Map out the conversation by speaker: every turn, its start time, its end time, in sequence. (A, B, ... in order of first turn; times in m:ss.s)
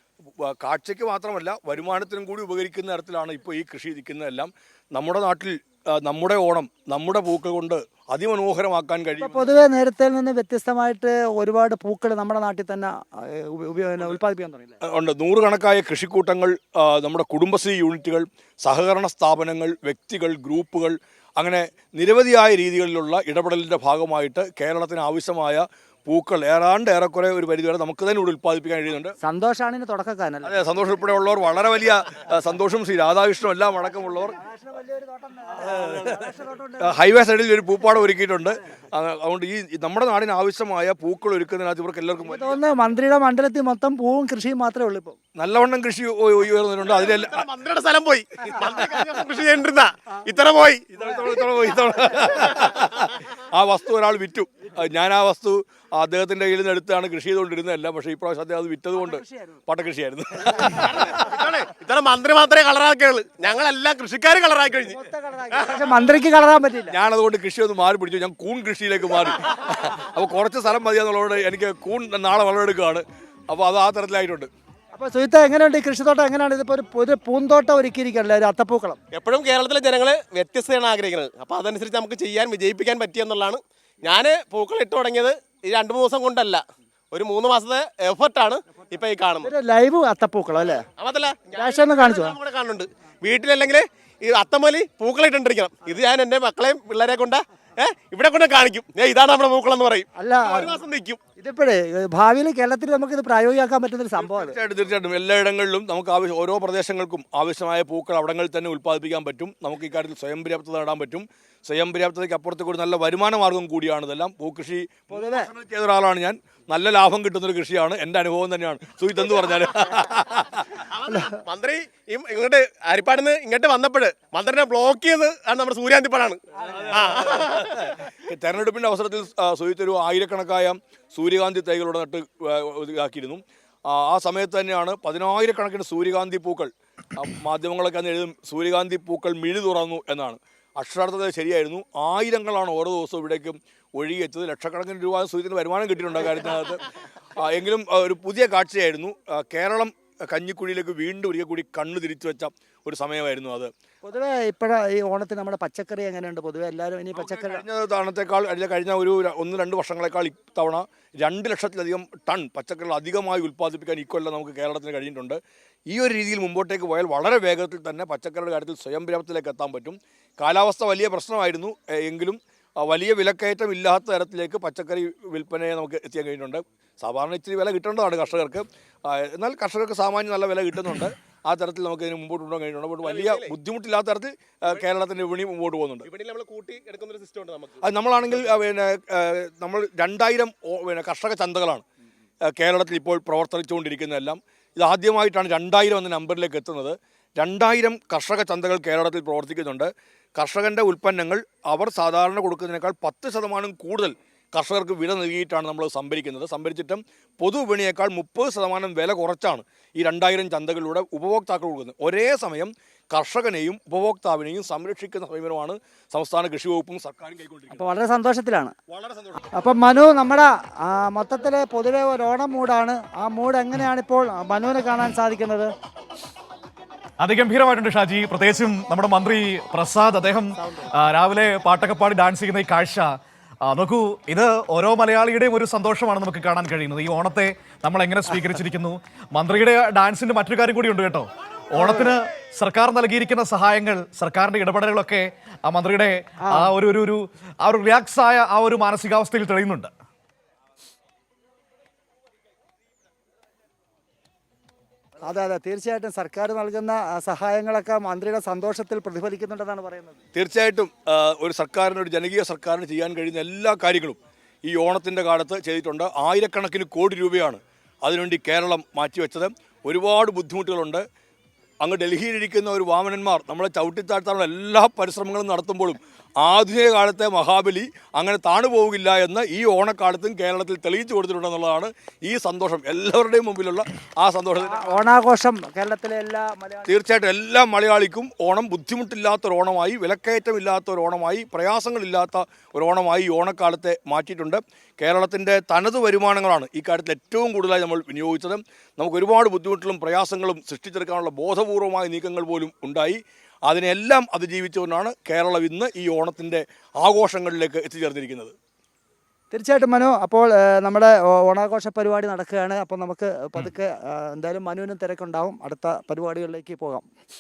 0:00.4-0:09.5 A
0:09.2-0:14.8 B
0:14.8-0:29.2 A
0:29.2-0:30.5 B
0:30.4-0:34.4 A
0:34.3-0:37.0 B
0:36.8-0:42.6 A
0:42.3-0:45.2 B
0:45.4-0:47.4 A
0:46.8-0:50.8 C
0:50.9-1:01.4 A
0:59.0-0:59.6 B
1:00.9-1:06.0 C
1:04.9-1:06.9 B
1:06.9-1:14.5 A
1:14.9-1:19.0 B
1:19.1-1:29.5 C
1:29.4-1:30.8 B
1:31.0-1:41.2 C
1:31.5-1:32.4 B
1:40.1-1:40.8 B
1:41.4-1:44.6 B
1:44.2-2:00.8 A
1:55.1-1:55.5 B
2:00.9-2:07.8 C
2:01.1-2:01.4 B
2:06.8-2:26.8 A
2:27.4-2:33.7 A
2:34.0-2:37.6 B
2:37.1-2:45.4 A
2:45.9-3:06.1 A
3:03.0-3:03.5 C
3:06.0-3:07.8 C
3:07.8-3:11.8 A
3:12.4-3:37.8 A
3:37.7-3:38.7 B
3:38.9-3:39.4 A
3:39.5-3:45.7 B
3:47.2-3:53.1 D
3:50.6-3:50.9 B
3:53.6-4:09.9 D
4:01.8-4:02.1 B
4:06.4-4:06.7 B
4:15.2-4:20.2 B
4:20.3-4:31.0 A
4:31.8-4:45.0 A
4:44.6-4:46.9 B
4:46.8-5:08.5 A
5:09.5-5:17.0 B